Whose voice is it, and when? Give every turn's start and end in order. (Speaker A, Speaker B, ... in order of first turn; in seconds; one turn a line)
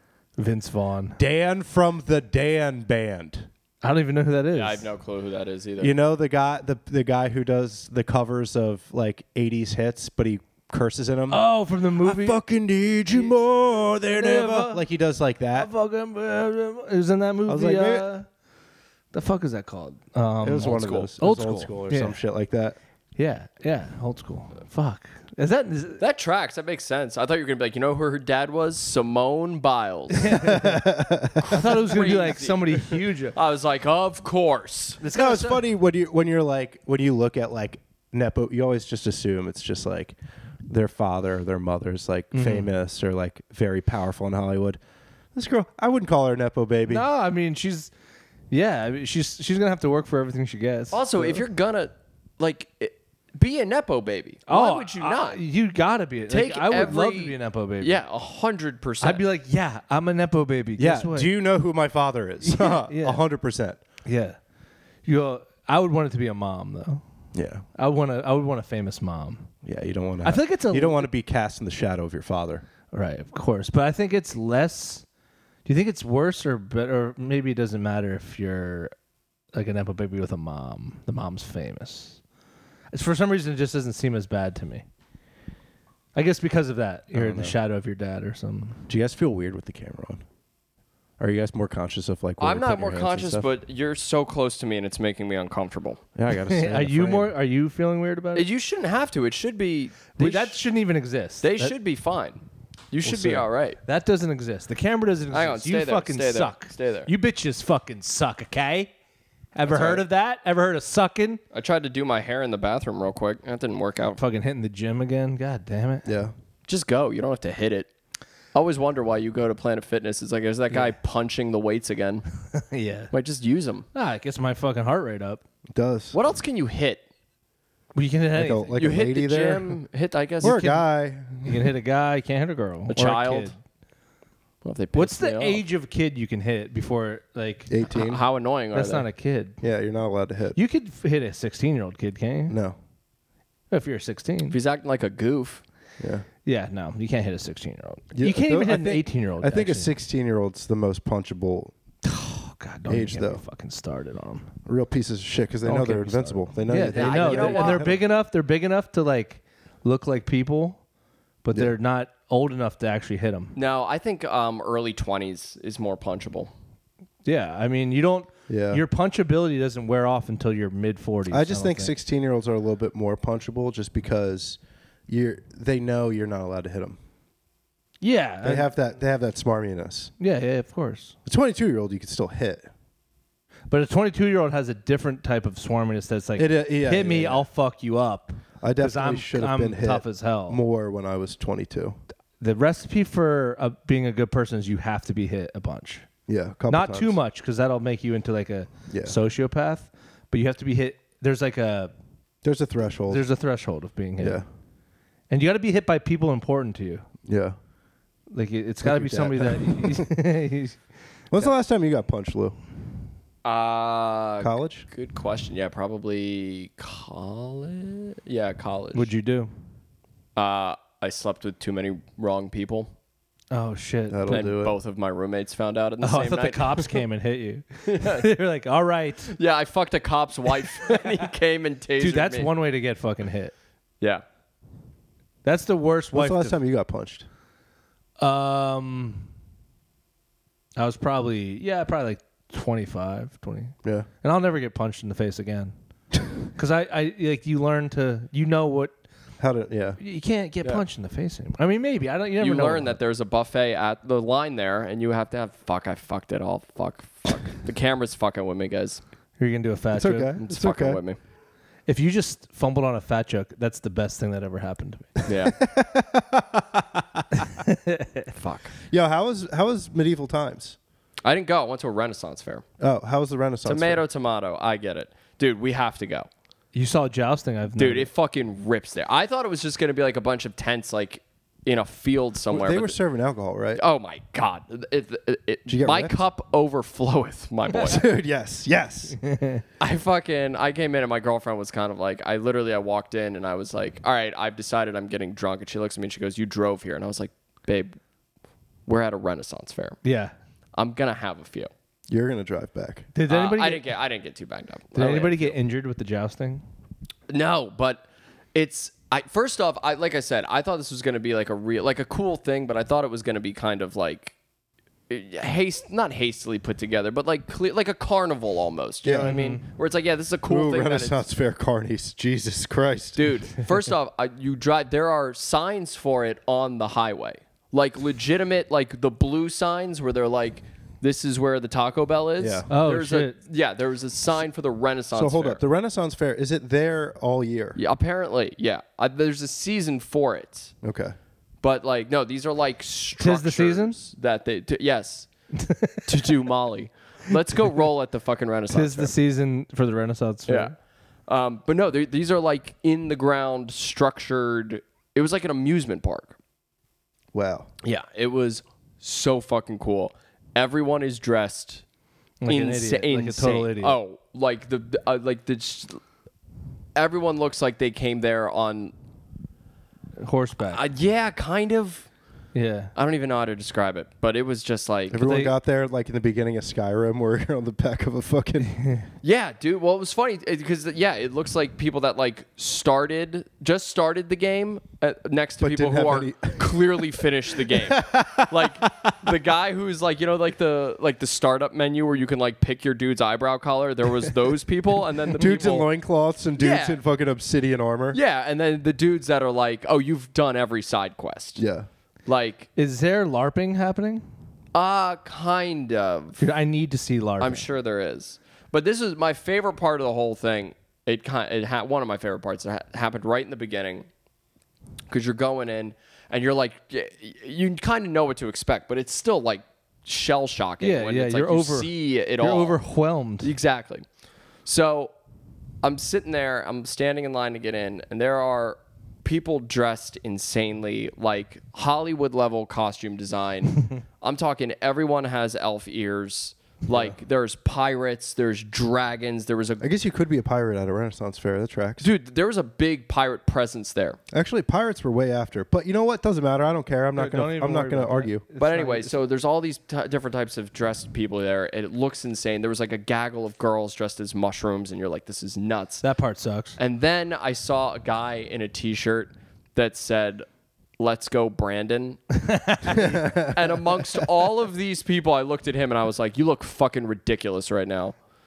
Speaker A: 0.4-1.2
Speaker B: 1.2-3.5
Speaker A: 3.8-4.9
Speaker C: 4.5-5.9
Speaker B: 5.8-11.4
Speaker A: 11.3-12.4
Speaker B: 12.0-15.7
Speaker A: 14.0-14.8
Speaker A: 15.6-18.3
Speaker B: 17.5-18.1
Speaker A: 19.1-22.2
Speaker B: 20.4-22.8
Speaker C: 20.6-21.1
Speaker A: 23.2-26.0
Speaker C: 26.0-30.4
Speaker A: 30.1-33.4
Speaker B: 30.3-31.6
Speaker C: 31.4-35.0
Speaker A: 35.0-35.6
Speaker B: 35.0-40.2
Speaker B: 40.7-44.8
Speaker A: 42.3-42.7
Speaker B: 45.4-47.1
Speaker A: 46.9-47.9
Speaker A: 48.5-51.4
Speaker C: 50.9-55.4
Speaker A: 54.5-58.0
Speaker C: 56.3-59.2
Speaker A: 59.0-61.3
Speaker B: 60.8-63.8
Speaker A: 62.4-63.2
Speaker A: 64.1-64.4
Speaker A: 65.0-67.0
Speaker B: 67.3-67.7
Speaker A: 67.8-69.5
Speaker B: 69.6-72.7
Speaker A: 70.2-71.1
Speaker A: 72.9-75.0
Speaker A: 75.7-78.9
Speaker A: 79.5-82.2
Speaker A: 82.9-84.8
Speaker A: 86.2-88.8
Speaker B: 87.1-87.6
Speaker B: 88.9-90.2
Speaker B: 91.2-93.5
Speaker C: 92.4-96.0
Speaker B: 96.2-97.3
Speaker A: 96.5-98.5
Speaker C: 98.3-100.6
Speaker A: 100.2-101.7
Speaker C: 101.4-103.8
Speaker B: 103.0-103.5
Speaker A: 103.9-108.9
Speaker C: 105.3-107.1
Speaker A: 109.5-111.4
Speaker C: 109.7-110.1
Speaker C: 111.5-114.2
Speaker A: 114.2-116.1
Speaker B: 116.1-116.3
Speaker C: 116.7-117.9
Speaker C: 118.5-122.2
Speaker A: 122.5-123.1
Speaker C: 123.1-123.9
Speaker A: 123.9-125.4
Speaker B: 125.7-126.2
Speaker C: 126.1-127.0
Speaker A: 128.0-128.9
Speaker B: 128.3-129.8
Speaker C: 128.8-130.6
Speaker B: 130.4-131.8
Speaker A: 130.4-130.8
Speaker A: 131.4-133.6
Speaker C: 132.9-133.5
Speaker C: 134.6-135.6
Speaker A: 134.9-137.7
Speaker B: 137.7-138.2
Speaker C: 137.9-139.1
Speaker A: 138.7-139.6
Speaker B: 139.6-140.6
Speaker A: 140.6-142.6
Speaker B: 142.5-142.8
Speaker A: 143.7-144.6
Speaker C: 144.5-145.6
Speaker B: 146.0-146.3
Speaker A: 146.5-149.9
Speaker B: 148.1-151.8
Speaker A: 152.0-154.5
Speaker B: 152.9-153.4
Speaker B: 154.7-158.0
Speaker A: 155.6-160.8
Speaker C: 156.9-157.9
Speaker A: 161.4-163.6
Speaker C: 163.6-166.5
Speaker A: 167.2-171.9
Speaker B: 168.5-168.8
Speaker B: 171.3-177.0
Speaker A: 178.0-178.7
Speaker B: 178.4-180.1
Speaker A: 180.2-181.2
Speaker B: 181.3-182.7
Speaker A: 183.7-190.6
Speaker B: 186.4-187.5
Speaker B: 188.6-192.0
Speaker A: 192.4-196.1
Speaker B: 196.3-197.2
Speaker A: 196.7-201.9
Speaker B: 198.9-199.2
Speaker B: 202.4-203.2
Speaker A: 203.1-204.4
Speaker A: 205.3-207.1
Speaker B: 207.2-207.6
Speaker A: 208.3-210.8
Speaker B: 208.8-210.1
Speaker B: 211.3-212.6
Speaker C: 213.4-219.1
Speaker B: 214.4-214.9
Speaker A: 218.9-219.5
Speaker C: 220.4-222.9
Speaker A: 223.5-224.5
Speaker B: 224.1-224.8
Speaker C: 224.3-227.0
Speaker A: 226.0-229.3
Speaker C: 227.9-228.3
Speaker C: 229.3-232.5
Speaker A: 230.8-231.1
Speaker A: 232.0-233.5
Speaker A: 235.4-236.6
Speaker B: 236.1-237.3
Speaker A: 238.2-239.3
Speaker A: 240.8-245.7
Speaker A: 246.6-248.9
Speaker B: 249.4-250.0
Speaker A: 250.0-253.0
Speaker C: 252.4-259.0
Speaker A: 259.4-260.4
Speaker B: 259.9-261.0
Speaker C: 260.4-261.2
Speaker A: 261.9-265.2
Speaker C: 265.3-265.6
Speaker B: 265.3-266.9
Speaker A: 267.4-268.3
Speaker C: 268.4-268.8
Speaker B: 268.9-270.8
Speaker C: 271.2-272.6
Speaker B: 272.8-274.0
Speaker C: 273.6-276.3
Speaker A: 276.7-278.1
Speaker C: 277.8-283.0
Speaker B: 282.5-283.8
Speaker C: 283.8-288.1
Speaker B: 285.7-286.2
Speaker B: 287.8-289.2
Speaker A: 289.1-289.6
Speaker C: 289.8-297.9
Speaker C: 298.9-300.0
Speaker A: 300.0-300.3
Speaker C: 300.8-301.7
Speaker B: 302.1-303.1
Speaker A: 303.1-303.9
Speaker C: 303.3-305.6
Speaker A: 304.9-306.6
Speaker C: 307.3-314.3
Speaker C: 315.1-321.2
Speaker B: 319.0-319.4
Speaker A: 319.2-319.6
Speaker B: 320.4-323.4
Speaker C: 323.2-335.6
Speaker B: 332.4-332.7
Speaker A: 332.7-333.4
Speaker B: 335.1-337.8
Speaker C: 337.8-340.7
Speaker B: 340.8-341.2
Speaker C: 341.6-345.3
Speaker A: 343.2-344.0
Speaker A: 345.6-346.1
Speaker C: 346.1-349.1
Speaker A: 348.7-350.7
Speaker C: 350.5-350.7
Speaker C: 351.3-356.4
Speaker B: 357.3-357.7
Speaker C: 357.8-361.8
Speaker A: 362.4-364.0
Speaker C: 362.5-366.0
Speaker C: 366.9-368.9
Speaker A: 370.2-370.8
Speaker C: 370.6-372.1
Speaker A: 372.5-372.9
Speaker C: 372.9-375.2
Speaker B: 375.1-378.8
Speaker A: 375.2-375.5
Speaker A: 378.7-379.1
Speaker C: 379.2-395.9
Speaker B: 385.6-389.4
Speaker B: 395.3-398.2
Speaker C: 396.6-397.0
Speaker C: 398.1-401.6
Speaker B: 401.6-401.9
Speaker C: 402.3-402.7
Speaker A: 402.8-404.3
Speaker C: 404.7-406.4
Speaker A: 406.4-407.7
Speaker C: 407.4-414.1
Speaker C: 415.1-422.8
Speaker A: 420.8-423.5
Speaker C: 423.4-424.1
Speaker C: 424.6-425.1
Speaker C: 425.8-439.9
Speaker B: 436.9-437.2
Speaker B: 439.8-442.1
Speaker C: 442.0-444.2
Speaker B: 444.3-448.4
Speaker A: 447.1-449.2
Speaker C: 448.6-456.0
Speaker A: 456.0-456.8
Speaker C: 456.8-460.5
Speaker C: 461.0-462.2
Speaker A: 462.4-463.2
Speaker C: 462.8-468.2
Speaker B: 462.9-464.3